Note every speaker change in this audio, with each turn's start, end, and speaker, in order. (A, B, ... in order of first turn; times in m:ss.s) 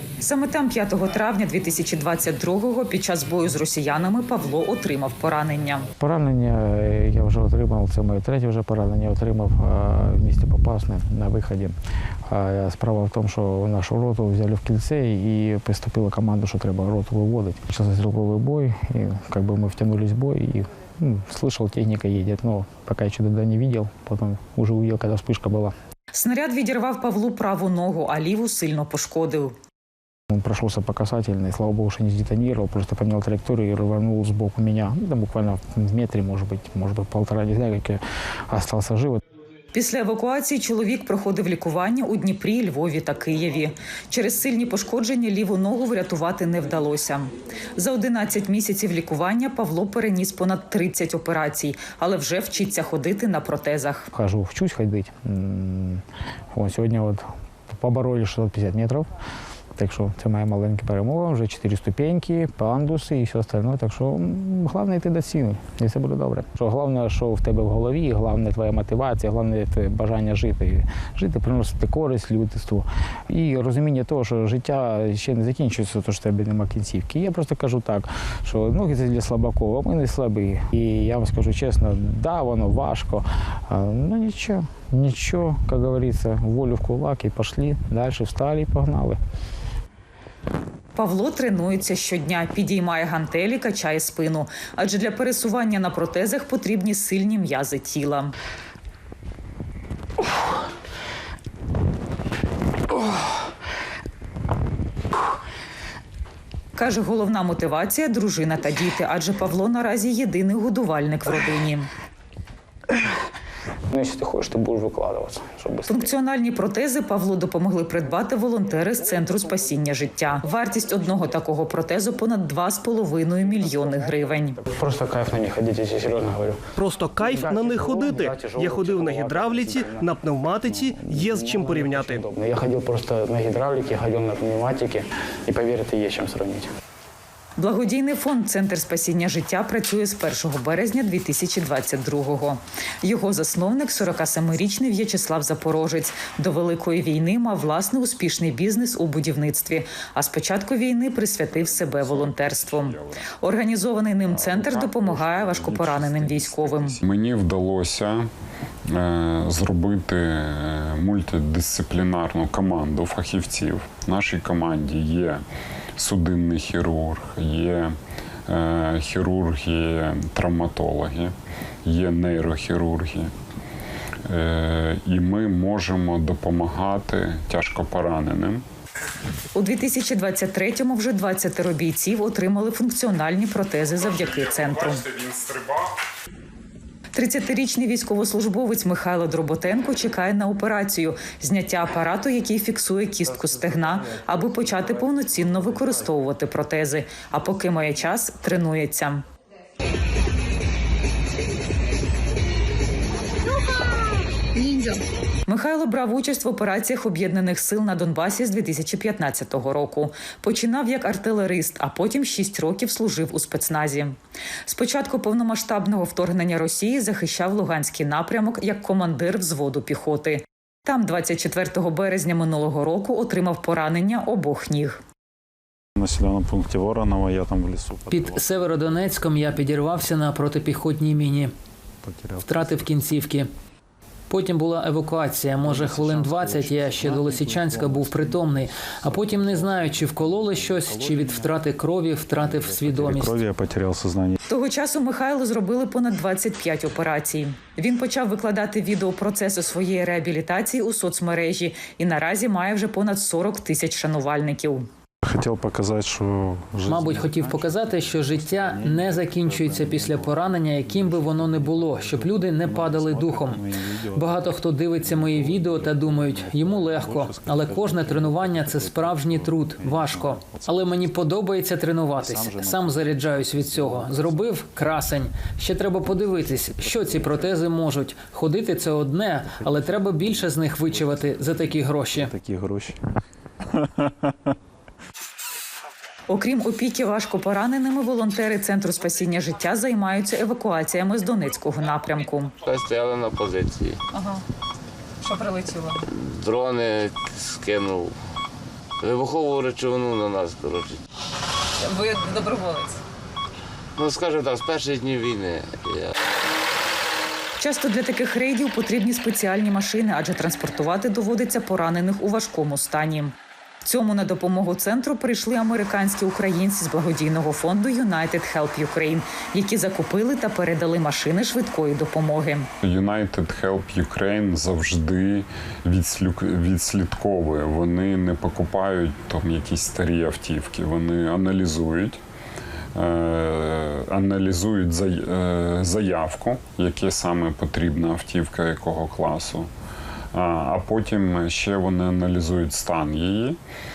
0:00.2-0:05.9 A
0:06.0-0:11.8 B
0:12.3-0:25.7 B
0:26.2-0:29.6 A
0:30.3-0:39.2 B
0:39.7-0:54.1 A
0:54.1-0:59.1 B
0:59.8-1:29.2 B
1:31.0-1:38.3 A
1:46.8-1:51.9 A
1:53.9-1:56.1 B
1:55.9-2:04.6 A
2:04.6-2:06.6 B
2:06.8-2:12.2 C
2:07.2-2:16.7 B
2:17.6-2:37.0 A
2:32.0-2:32.9 D
2:37.0-2:38.3 D
2:38.9-2:45.4 D
2:46.0-2:53.3 D
2:54.3-2:58.6 D
2:59.6-3:05.0 A
3:04.0-3:05.9 D
3:07.1-3:19.2 A
3:25.5-3:45.0 A
3:46.0-3:48.6 E
3:48.1-3:51.5 F
3:52.0-3:52.8 E
3:52.4-3:53.5 F
3:54.3-4:03.4 F
3:55.6-3:58.4 E
3:59.2-3:59.7 E
4:00.5-4:01.4 E
4:02.4-4:04.4 E
4:04.5-4:14.9 A
4:15.2-4:24.4 E
4:16.8-4:42.3 F
4:25.1-4:29.3 E
4:29.8-4:30.9 E
4:32.2-4:34.4 E
4:36.9-4:37.3 E
4:39.6-4:40.3 E
4:42.1-4:43.0 E
4:46.3-4:52.5 A
4:52.6-4:54.0 G
4:55.2-4:55.9 A
4:56.0-4:58.2 G
4:59.0-5:01.0 G
5:01.8-5:02.9 A
5:04.0-5:06.1 G
5:07.6-5:22.7 A
5:22.8-5:32.2 D
5:33.0-5:39.7 D
5:40.3-5:43.6 D